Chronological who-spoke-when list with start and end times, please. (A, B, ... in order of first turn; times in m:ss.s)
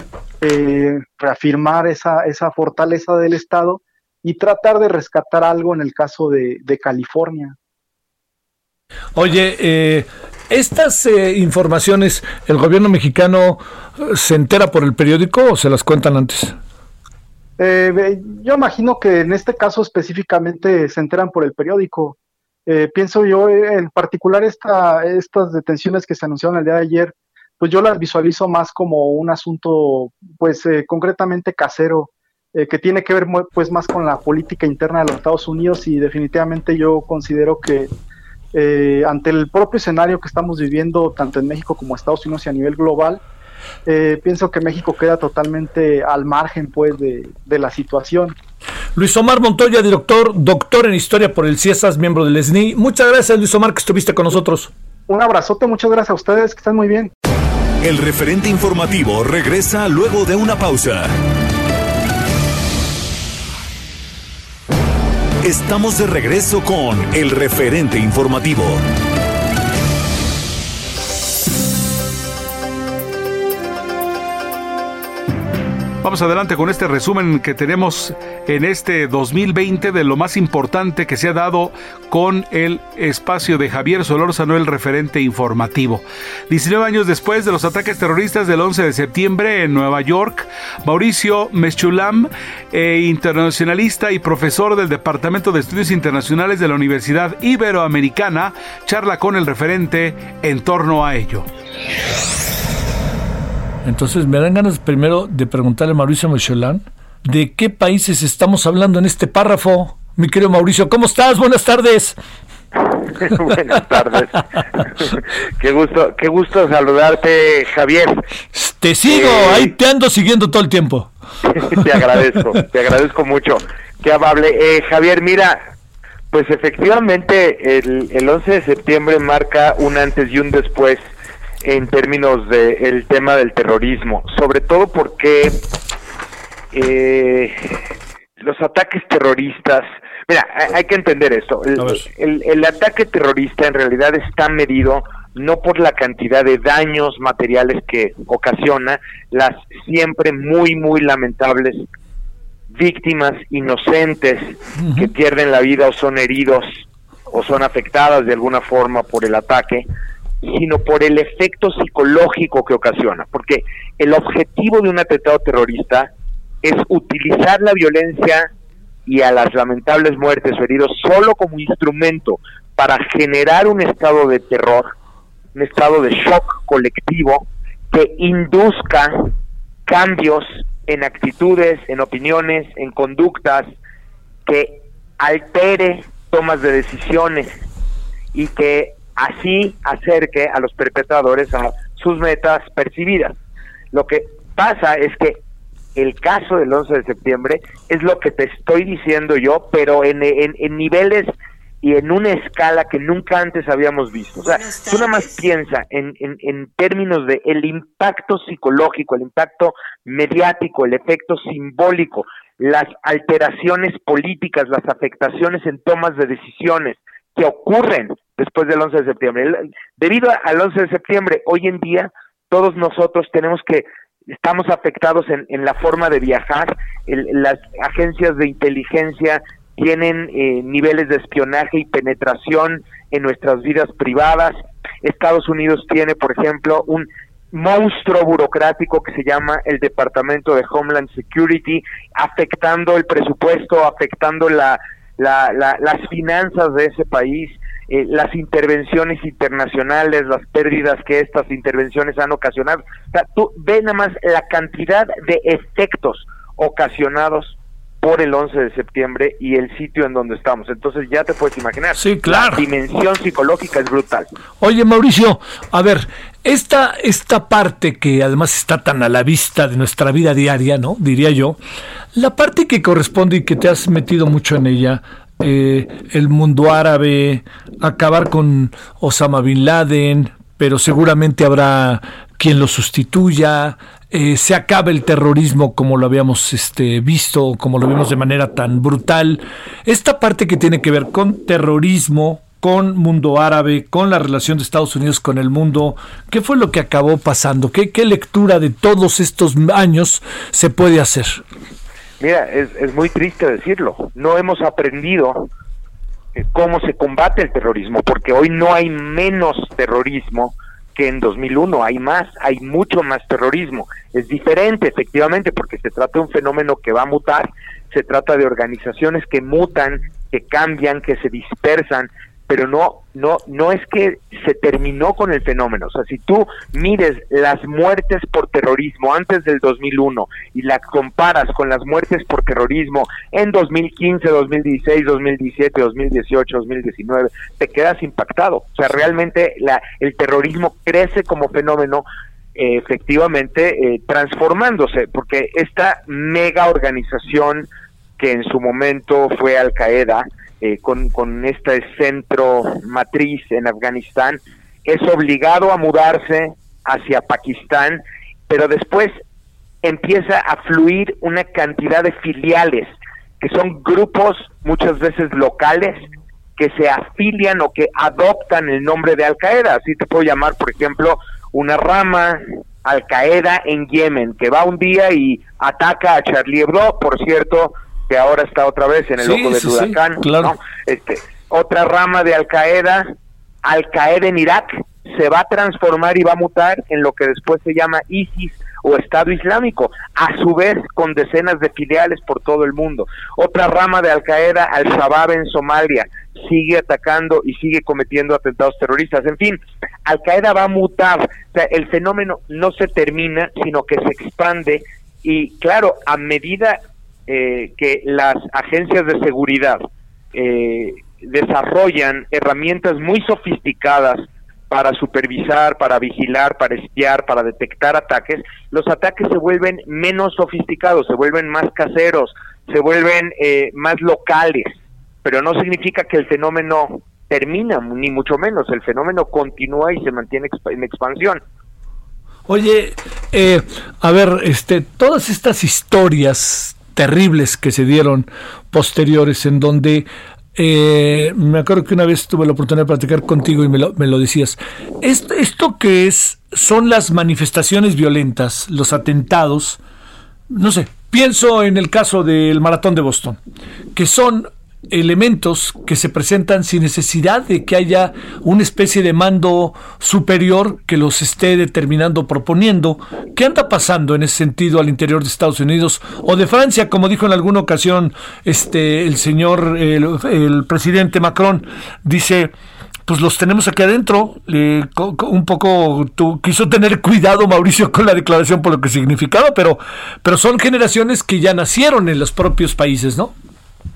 0:00.4-0:07.6 A
0:09.1-0:16.6 B
0:17.6-0:37.9 A
0:38.5-0:43.2 A
0:43.9-0:48.4 A
0:49.0-0:54.7 B
0:55.1-0:57.1 A
0:57.8-1:01.1 C
1:05.4-1:08.8 C
1:16.0-1:41.5 D
1:43.8-1:52.2 B
1:53.0-1:58.2 E
1:58.5-2:01.1 B
1:59.1-1:59.8 E
2:01.4-2:05.6 E
2:06.3-2:11.0 E
2:11.6-2:15.6 E
2:16.7-2:17.8 E
2:18.4-2:31.9 E
2:32.7-2:39.9 E
2:34.8-2:35.1 B
2:40.4-2:46.1 E
2:46.6-2:48.5 E
2:49.1-2:54.9 E
2:55.6-2:59.3 E
2:59.9-3:03.7 E
3:04.5-3:07.5 E
3:08.3-3:13.4 E
3:13.9-3:15.4 E
3:16.0-4:24.3 E
4:22.0-4:22.7 B
4:24.6-4:31.6 B
4:32.1-5:01.4 B
5:02.2-5:05.5 E
5:06.4-5:59.2 E
5:59.8-6:23.1 E
6:19.2-6:20.5 B
6:23.6-7:11.4 E
7:12.5-7:29.8 B
7:30.5-7:33.4 B
7:33.9-7:52.5 B
7:53.1-8:03.3 B